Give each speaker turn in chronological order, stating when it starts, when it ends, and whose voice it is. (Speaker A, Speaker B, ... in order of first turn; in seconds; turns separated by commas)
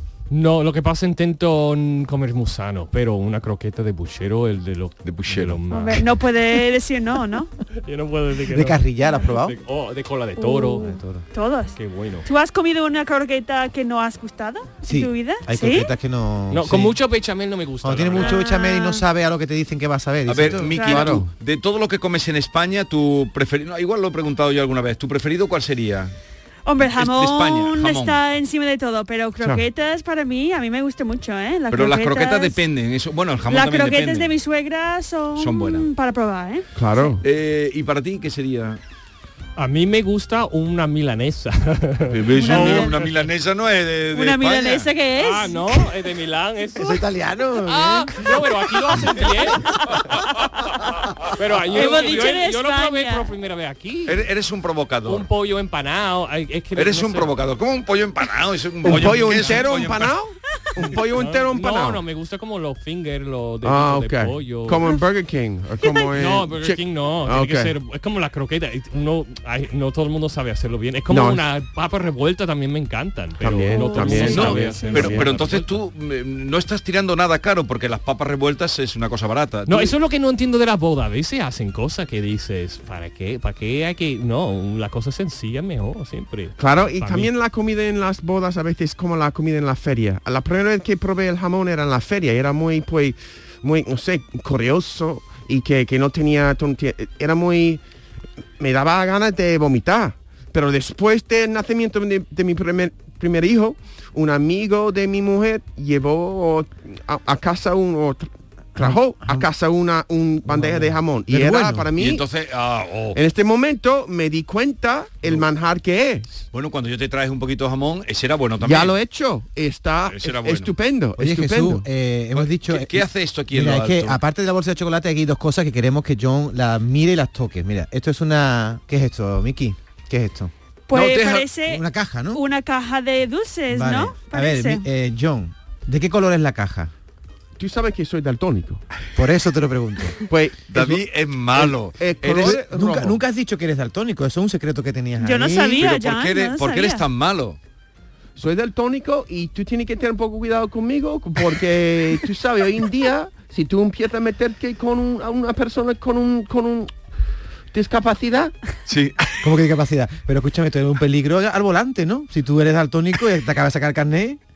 Speaker A: 0.3-6.1, Speaker B: 5.0-5.6, Speaker C: 5.7-7.5, Speaker A: 7.8-11.0, Speaker D: 8.5-9.5, Speaker C: 10.4-15.9, Speaker D: 10.8-11.2, Speaker A: 11.8-12.3, Speaker D: 14.8-17.0, Speaker A: 16.5-18.4, Speaker D: 17.8-20.8, Speaker C: 18.2-19.0, Speaker B: 20.3-26.1, Speaker C: 20.7-21.1, Speaker E: 20.8-21.3, Speaker C: 26.6-32.6, Speaker B: 26.8-28.2, Speaker B: 31.7-34.3, Speaker C: 33.5-37.1, Speaker B: 35.4-35.9, Speaker E: 36.8-37.2, Speaker B: 37.2-38.8, Speaker A: 39.6-43.1, Speaker B: 42.1-44.9, Speaker C: 42.4-42.9, Speaker C: 44.1-45.6, Speaker A: 45.2-47.0, Speaker D: 46.8-48.4, Speaker A: 47.6-50.3, Speaker A: 51.3-54.2, Speaker C: 51.7-53.3, Speaker B: 54.1-55.3, Speaker A: 55.0-57.3, Speaker B: 56.7-60.1, Speaker E: 58.8-62.0, Speaker A: 61.1-64.9, Speaker E: 63.6-67.7, Speaker C: 65.8-66.1, Speaker A: 66.1-75.8, Speaker E: 71.1-71.4, Speaker E: 73.4-75.3, Speaker C: 73.7-75.1, Speaker B: 74.2-79.9, Speaker A: 79.7-87.3, Speaker E: 86.6-97.8, Speaker E: 98.6-112.2, Speaker D: 108.8-109.5, Speaker D: 110.5-111.9, Speaker B: 112.0-113.2, Speaker E: 113.1-116.4, Speaker B: 116.5-118.9, Speaker E: 118.6-121.8, Speaker B: 120.1-120.7, Speaker D: 121.2-130.5, Speaker B: 122.3-124.2, Speaker C: 130.9-134.8, Speaker B: 130.9-131.5, Speaker D: 131.7-132.4, Speaker D: 133.7-136.9, Speaker E: 137.6-138.8, Speaker D: 139.2-140.2, Speaker E: 140.3-141.0, Speaker B: 140.7-142.6, Speaker E: 141.5-143.2, Speaker D: 142.3-145.8, Speaker C: 145.2-147.0, Speaker B: 145.8-147.6, Speaker E: 148.4-156.9, Speaker E: 157.7-158.5, Speaker B: 158.9-159.3, Speaker D: 159.4-164.4